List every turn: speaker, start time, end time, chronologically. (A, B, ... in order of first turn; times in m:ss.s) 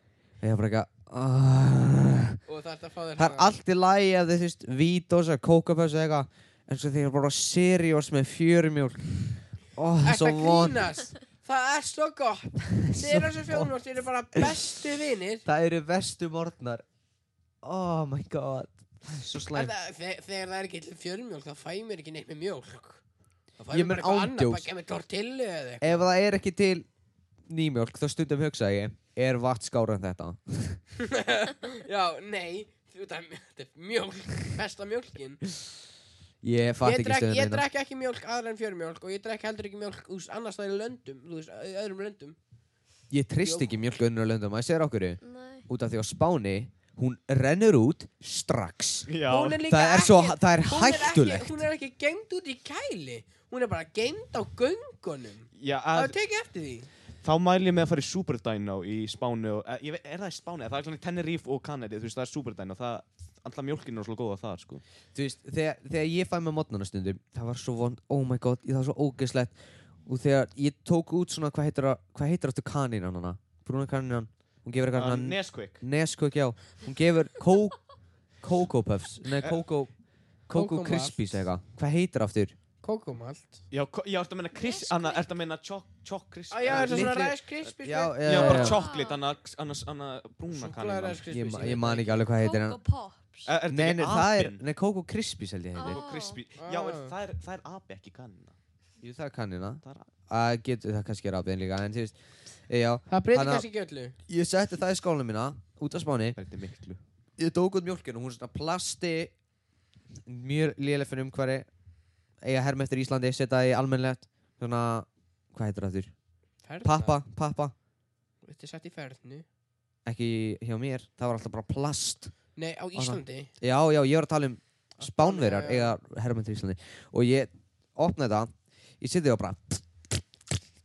0:00.4-0:02.4 A
0:02.5-0:03.6 B
0:03.2-0:10.8 A
0:10.0-0:15.4 B
0:12.8-0:13.7 A
0:15.4-0:16.8 A
0:17.6-0:19.7 A
0:19.5-0:23.0 B
0:23.6-0:26.0 B
0:23.7-0:24.7 A
0:25.8-0:26.8 A
0:27.5-0:30.8 A
0:31.0-0:35.5 B
0:36.4-0:37.6 A
0:36.8-0:42.4 B
0:43.1-0:49.1 A
0:43.4-0:43.7 B
0:45.2-0:45.6 C
0:49.1-0:49.6 D
0:49.2-0:56.9 B
0:49.7-0:51.6 A
0:55.6-0:56.1 D
0:57.2-1:04.8 D
1:05.1-1:17.8 A
1:14.9-1:15.8 D
1:18.4-1:19.9 A
1:20.5-1:22.6 A
1:20.5-1:21.2 B
1:22.8-1:23.6 B
1:23.7-1:27.2 D
1:24.5-1:25.2 C
1:26.5-1:28.7 B
1:26.6-1:28.8 A
1:28.2-1:31.2 D
1:28.5-1:29.2 C
1:30.5-1:32.2 B
1:31.3-1:32.8 A
1:32.4-1:33.5 C
1:33.4-1:34.6 D
1:33.7-1:36.0 A
1:35.7-1:36.4 C
1:35.8-1:38.5 D
1:36.6-1:37.1 B
1:39.0-1:42.1 A
1:42.7-1:43.6 A
1:43.1-1:44.1 B
1:44.3-1:46.4 A
1:46.4-1:47.0 D
1:47.4-1:49.3 A
1:50.3-1:51.7 A
1:52.4-1:56.1 A
1:56.6-1:57.2 B
1:56.8-1:57.7 A
1:58.4-1:59.4 B
2:00.0-2:02.3 A
2:02.5-2:03.5 B
2:02.9-2:10.2 A
2:05.0-2:06.0 B